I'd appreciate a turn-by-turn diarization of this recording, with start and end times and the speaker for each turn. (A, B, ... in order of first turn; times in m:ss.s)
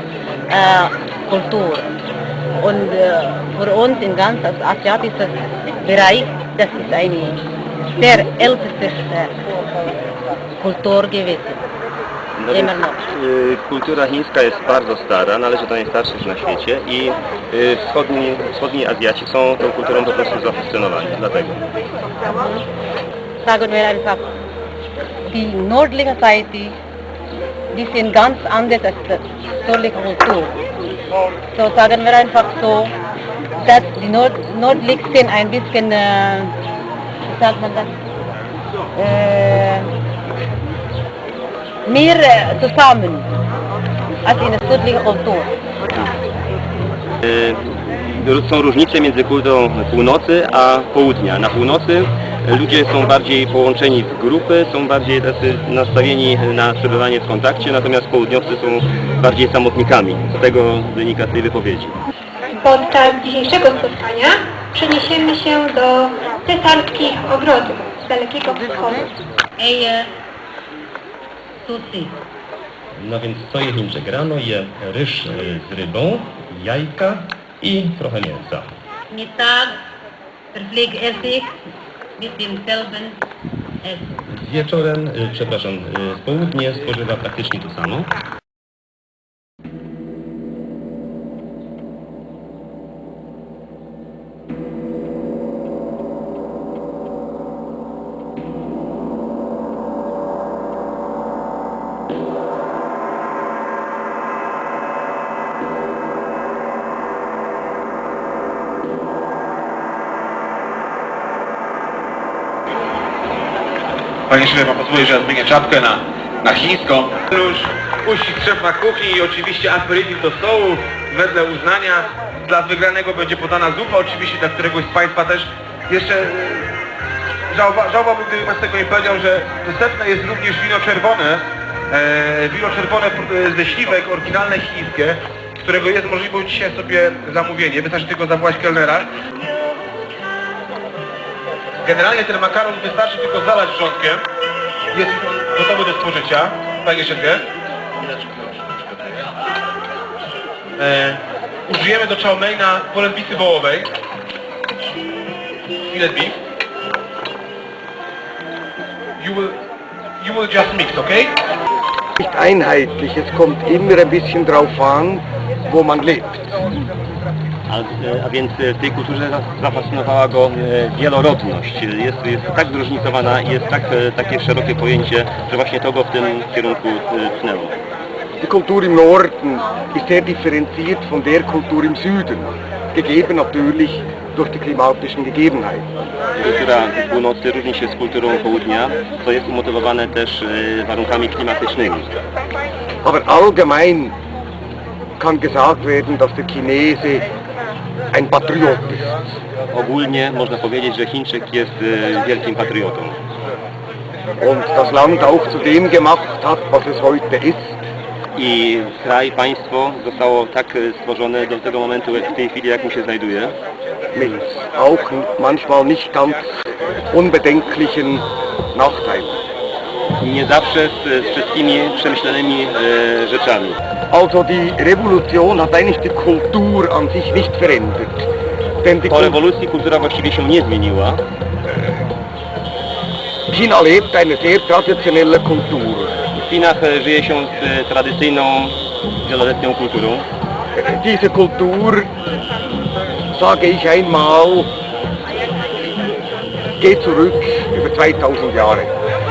0:00.5-0:02.0 A
0:02.6-0:09.4 A
0:10.6-0:11.6 A
0:12.4-0:21.6 B
0:12.5-0:13.0 A
0:22.2-0:22.7 A
0:23.4-0:24.2 A
0:25.2-0:26.8 A
0:27.7-0:30.6 A
0:31.5-0:32.9 A
0:33.6-0:36.6 A
0:37.2-0:37.9 A
0:38.9-0:39.9 A
0:41.8-0:43.3 A
0:44.2-0:45.5 A
0:47.2-1:02.0 B
1:02.6-1:09.2 C
1:09.6-1:10.1 A
1:11.6-1:12.2 A
1:13.0-1:18.7 B
1:19.1-1:19.8 A
1:20.5-1:21.6 A
1:22.2-1:23.2 A
1:24.3-1:28.1 B
1:54.3-2:06.7 D
2:07.5-2:19.1 D
2:21.8-2:24.2 D
2:24.9-2:27.5 D
2:28.0-2:28.7 D
2:30.8-2:33.9 D
2:35.9-2:36.4 D
2:39.2-2:39.6 D
2:40.2-2:41.4 D
2:42.2-2:46.4 E
2:47.7-2:57.8 B
2:58.4-3:05.9 E
3:06.4-3:12.2 B
3:13.0-3:14.2 E
3:15.2-3:17.3 E
3:18.1-3:19.2 E
3:19.7-3:23.2 B
3:24.4-3:27.8 E
3:28.4-3:33.6 B
3:34.1-3:36.5 E
3:37.1-3:39.4 E
3:40.2-3:43.8 B
3:44.1-3:48.3 E
3:48.8-3:49.4 E
3:49.1-3:51.2 B
3:53.5-3:56.2 E
3:56.4-4:00.3 B
4:00.8-4:02.1 E
4:03.3-4:04.7 E
4:06.8-4:08.9 E